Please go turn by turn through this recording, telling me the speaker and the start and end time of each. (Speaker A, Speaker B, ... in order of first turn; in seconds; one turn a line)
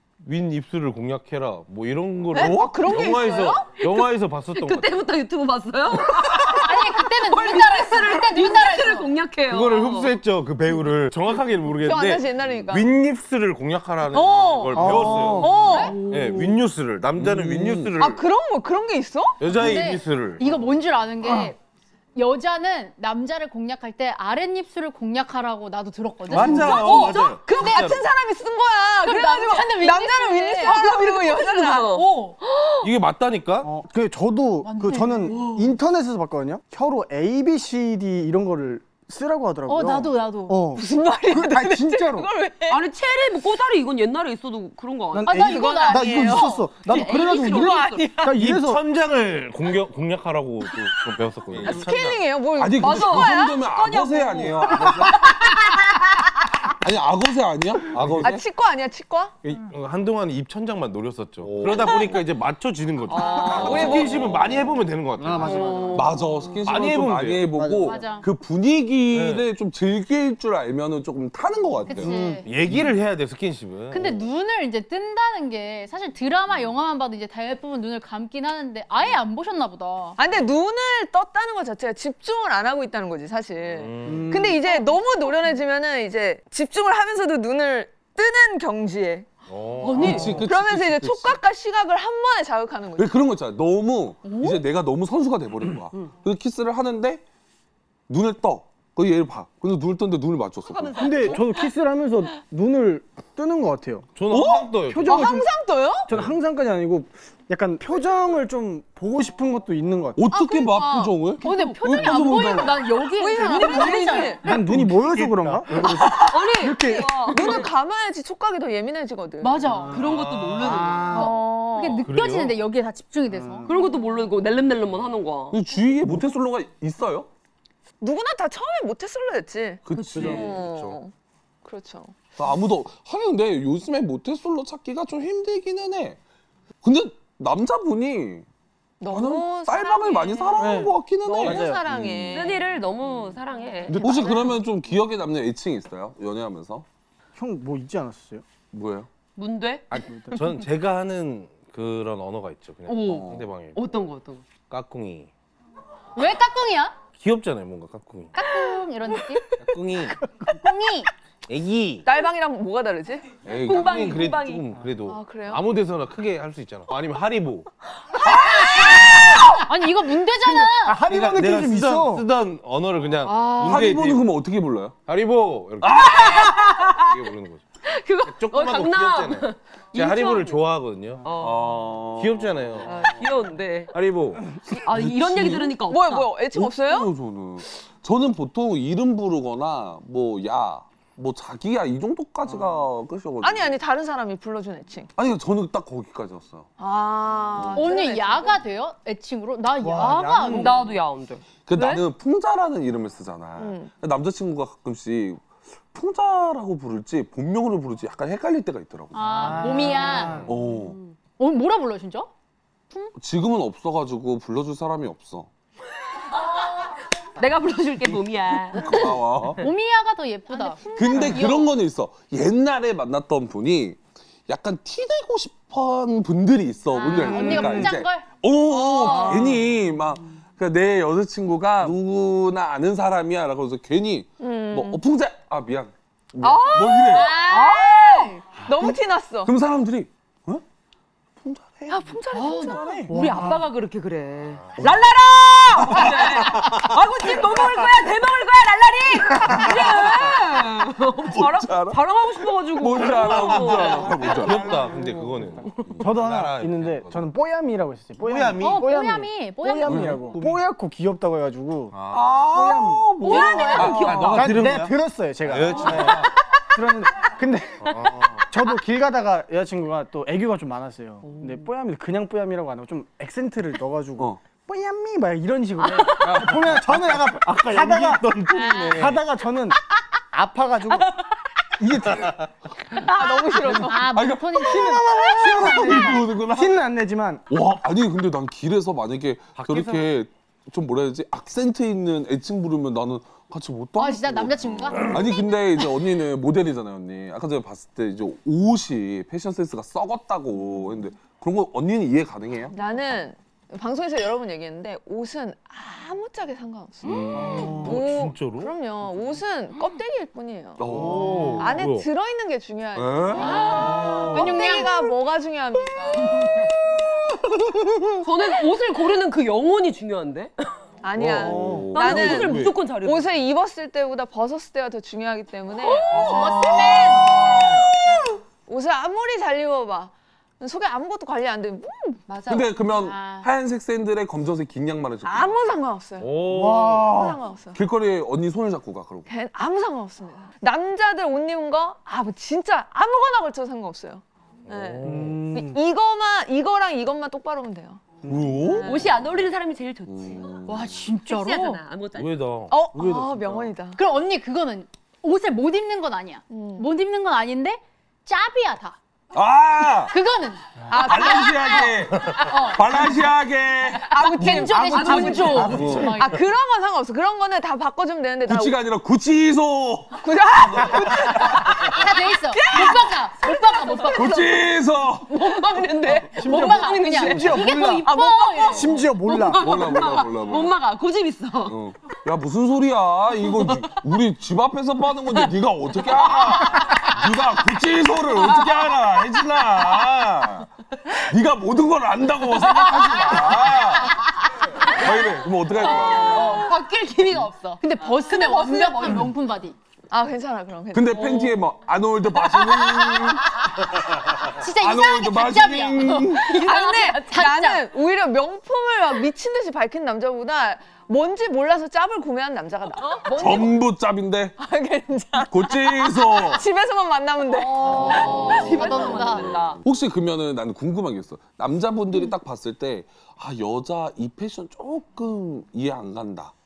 Speaker A: 0.2-4.9
Speaker B: 2.3-3.7
Speaker C: 2.3-2.8
Speaker D: 3.8-10.1
Speaker E: 6.5-9.1
Speaker A: 9.4-18.2
Speaker B: 11.8-12.9
Speaker B: 14.1-16.0
Speaker F: 14.7-16.0
Speaker E: 15.6-16.0
Speaker D: 15.7-16.4
Speaker C: 17.1-17.9
Speaker B: 17.9-19.4
Speaker A: 19.4-20.6
Speaker E: 19.5-21.6
Speaker E: 22.1-27.8
Speaker A: 26.2-28.1
Speaker B: 26.6-32.9
Speaker D: 26.7-27.2
Speaker E: 29.0-31.1
Speaker D: 30.6-32.1
Speaker E: 31.9-32.4
Speaker A: 32.8-33.7
Speaker F: 33.6-42.3
Speaker E: 34.6-35.6
Speaker D: 35.3-35.7
Speaker E: 39.7-40.6
Speaker B: 40.7-42.8
Speaker D: 42.7-45.4
Speaker F: 45.1-48.8
Speaker E: 45.2-46.6
Speaker B: 45.3-48.3
Speaker D: 46.8-48.1
Speaker A: 48.2-52.2
Speaker B: 51.6-53.6
Speaker C: 52.5-55.5
Speaker D: 52.8-55.7
Speaker C: 56.7-58.4
Speaker A: 57.9-58.3
Speaker B: 58.2-59.3
Speaker A: 59.4-66.0
Speaker C: 61.4-62.2
Speaker B: 61.9-62.1
Speaker D: 63.1-64.2
Speaker B: 63.2-64.4
Speaker C: 63.4-64.8
Speaker F: 65.2-66.2
Speaker D: 65.4-66.3
Speaker C: 65.9-72.9
Speaker A: 66.6-67.6
Speaker F: 67.5-68.0
Speaker E: 67.8-68.2
Speaker A: 69.1-69.5
Speaker E: 71.8-72.5
Speaker A: 72.1-74.2
Speaker E: 73.9-80.2
Speaker B: 80.2-89.3
Speaker A: 83.7-84.5
Speaker F: 84.0-84.6
Speaker E: 84.6-85.0
Speaker A: 89.5-90.5
Speaker D: 89.8-90.4
Speaker C: 90.0-91.4
Speaker B: 90.3-93.2
Speaker C: 93.0-97.2
Speaker E: 94.3-94.6
Speaker C: 98.1-101.4
Speaker D: 100.6-101.5
Speaker F: 100.9-104.1
Speaker A: 104.2-105.3
Speaker C: 104.3-104.7
Speaker F: 104.8-105.5
Speaker B: 105.0-106.1
Speaker F: 106.1-110.2
Speaker C: 110.2-112.9
Speaker B: 110.3-111.2
Speaker E: 111.4-114.5
Speaker D: 111.4-112.2
Speaker B: 113.1-114.4
Speaker D: 113.6-114.2
Speaker F: 114.4-117.1
Speaker A: 114.5-115.8
Speaker D: 116.0-117.7
Speaker B: 116.7-119.7
Speaker E: 119.4-120.1
Speaker F: 119.7-120.0
Speaker D: 119.9-121.3
Speaker A: 120.0-121.1
Speaker F: 120.6-121.2
Speaker E: 121.1-123.8
Speaker B: 121.1-122.1
Speaker A: 122.0-122.6
Speaker F: 123.3-123.7
Speaker D: 123.7-125.6
Speaker C: 125.5-127.3
Speaker B: 128.0-131.1
Speaker C: 129.8-130.6
Speaker D: 129.9-130.5
Speaker F: 130.1-130.5
Speaker A: 130.4-130.9
Speaker B: 131.6-132.1
Speaker C: 132.4-136.2
Speaker C: 136.8-138.4
Speaker B: 139.0-142.6
Speaker C: 139.1-142.6
Speaker F: 140.6-141.8
Speaker D: 142.3-144.5
Speaker C: 143.9-146.8
Speaker F: 147.3-148.4
Speaker C: 148.7-149.1
Speaker D: 149.3-150.0
Speaker A: 149.9-153.8
Speaker F: 150.0-150.6
Speaker D: 152.9-154.4
Speaker C: 153.1-153.5
Speaker A: 154.6-155.3
Speaker E: 156.2-157.0
Speaker A: 157.1-158.4
Speaker E: 158.3-159.6
Speaker A: 159.5-160.3
Speaker E: 160.5-161.1
Speaker A: 161.5-162.1
Speaker B: 162.0-163.2
Speaker C: 163.4-164.3
Speaker D: 163.6-164.6
Speaker A: 163.7-167.7
Speaker B: 165.0-165.6
Speaker C: 168.2-169.7
Speaker E: 169.4-171.0
Speaker F: 170.8-172.2
Speaker A: 171.0-174.2
Speaker E: 173.2-173.7
Speaker C: 173.6-175.0
Speaker A: 175.1-177.6
Speaker C: 175.8-177.1
Speaker D: 176.2-177.0
Speaker D: 177.8-180.6
Speaker A: 178.2-181.2
Speaker D: 181.2-181.8
Speaker C: 181.3-183.1
Speaker A: 182.2-183.1
Speaker D: 182.8-183.9
Speaker A: 183.9-184.6
Speaker D: 184.7-186.3
Speaker C: 184.7-185.7
Speaker B: 185.9-187.1
Speaker C: 186.5-193.7
Speaker B: 193.4-195.1
Speaker C: 195.2-196.7
Speaker B: 196.8-198.6
Speaker C: 197.5-197.9
Speaker E: 197.7-200.7
Speaker F: 199.8-200.9
Speaker D: 200.4-202.0
Speaker C: 201.7-211.0
Speaker B: 203.6-203.9
Speaker E: 209.1-210.5
Speaker F: 209.4-210.5
Speaker D: 210.5-211.2
Speaker E: 211.4-212.3
Speaker C: 213.2-215.5
Speaker D: 217.3-219.7
Speaker C: 218.7-219.7
Speaker E: 219.6-221.8
Speaker C: 220.9-237.4
Speaker E: 226.9-228.3
Speaker D: 227.0-227.4
Speaker B: 228.7-229.6
Speaker E: 229.0-229.5
Speaker D: 229.0-229.5
Speaker B: 234.4-235.0
Speaker B: 236.4-239.5
Speaker E: 237.1-238.4
Speaker D: 237.5-238.4
Speaker C: 238.6-240.6
Speaker C: 241.4-243.0
Speaker B: 241.9-242.9
Speaker D: 242.3-254.5
Speaker F: 242.7-243.6
Speaker C: 244.8-247.8
Speaker C: 249.4-250.6
Speaker C: 251.2-252.0
Speaker C: 252.7-254.8
Speaker A: 253.2-257.2
Speaker F: 254.2-255.3
Speaker F: 256.0-261.9
Speaker A: 258.2-258.9
Speaker E: 258.6-260.1
Speaker C: 259.9-260.2
Speaker A: 260.0-260.6
Speaker A: 261.9-262.3
Speaker C: 262.1-264.9
Speaker F: 262.5-279.8
Speaker E: 263.2-264.0
Speaker D: 263.2-264.5
Speaker A: 263.8-264.9
Speaker A: 265.4-266.3
Speaker A: 267.8-268.5
Speaker D: 271.2-271.5
Speaker A: 276.0-279.2
Speaker C: 276.2-276.5
Speaker E: 278.5-278.9
Speaker F: 280.3-281.1
Speaker F: 281.8-282.4
Speaker A: 282.1-282.5
Speaker B: 282.9-284.2
Speaker E: 283.6-285.1
Speaker C: 284.1-286.8
Speaker F: 284.6-287.4
Speaker C: 287.5-302.7
Speaker A: 289.6-290.0
Speaker E: 294.0-295.9
Speaker B: 302.7-310.8
Speaker C: 307.1-308.0
Speaker F: 307.3-307.9
Speaker A: 307.3-308.7
Speaker C: 310.8-311.7
Speaker A: 310.9-312.1
Speaker F: 310.9-311.6
Speaker B: 311.6-316.6
Speaker C: 312.9-314.8
Speaker E: 313.4-314.9
Speaker D: 318.2-320.7
Speaker B: 321.0-332.6
Speaker C: 321.1-322.7
Speaker F: 321.4-321.9
Speaker D: 321.9-323.3
Speaker A: 322.1-322.7
Speaker E: 326.0-327.4
Speaker C: 326.1-327.9
Speaker C: 332.4-335.6
Speaker E: 332.5-333.5
Speaker B: 335.2-337.8
Speaker A: 336.2-337.2
Speaker F: 336.5-337.4
Speaker C: 337.7-339.3
Speaker B: 339.3-348.0
Speaker A: 344.7-345.5
Speaker F: 345.0-345.8
Speaker F: 348.2-348.7
Speaker C: 348.2-349.1
Speaker B: 348.6-349.1
Speaker D: 348.8-350.7
Speaker C: 350.1-350.7
Speaker E: 350.6-351.8
Speaker D: 351.2-352.5
Speaker A: 352.1-352.7
Speaker B: 352.7-354.0
Speaker F: 352.9-353.7
Speaker E: 353.9-359.0
Speaker B: 356.5-356.9
Speaker C: 359.3-360.1
Speaker E: 360.0-362.9
Speaker B: 360.9-361.9
Speaker C: 360.9-366.2
Speaker B: 364.0-368.8
Speaker E: 364.2-366.4
Speaker D: 365.1-365.7
Speaker F: 365.6-366.1
Speaker C: 368.4-372.0
Speaker B: 370.2-374.5
Speaker E: 371.8-374.6
Speaker C: 374.1-375.4
Speaker D: 375.3-381.8
Speaker F: 376.3-378.1
Speaker E: 376.4-378.8
Speaker B: 378.1-379.0
Speaker F: 378.7-379.8
Speaker C: 379.5-380.7
Speaker C: 381.6-394.2
Speaker D: 383.4-383.9
Speaker D: 385.4-387.1
Speaker D: 388.3-389.4
Speaker E: 392.7-399.8
Speaker C: 394.9-396.6
Speaker D: 395.8-399.3
Speaker B: 400.1-401.6
Speaker C: 400.9-403.6
Speaker D: 401.1-401.4
Speaker D: 402.4-403.3
Speaker E: 403.6-407.8
Speaker C: 404.6-406.6
Speaker B: 406.4-413.8
Speaker D: 413.2-413.7
Speaker C: 413.4-414.6
Speaker B: 414.6-419.4
Speaker C: 415.4-416.6
Speaker D: 417.5-419.8
Speaker E: 417.8-419.6
Speaker C: 418.1-426.5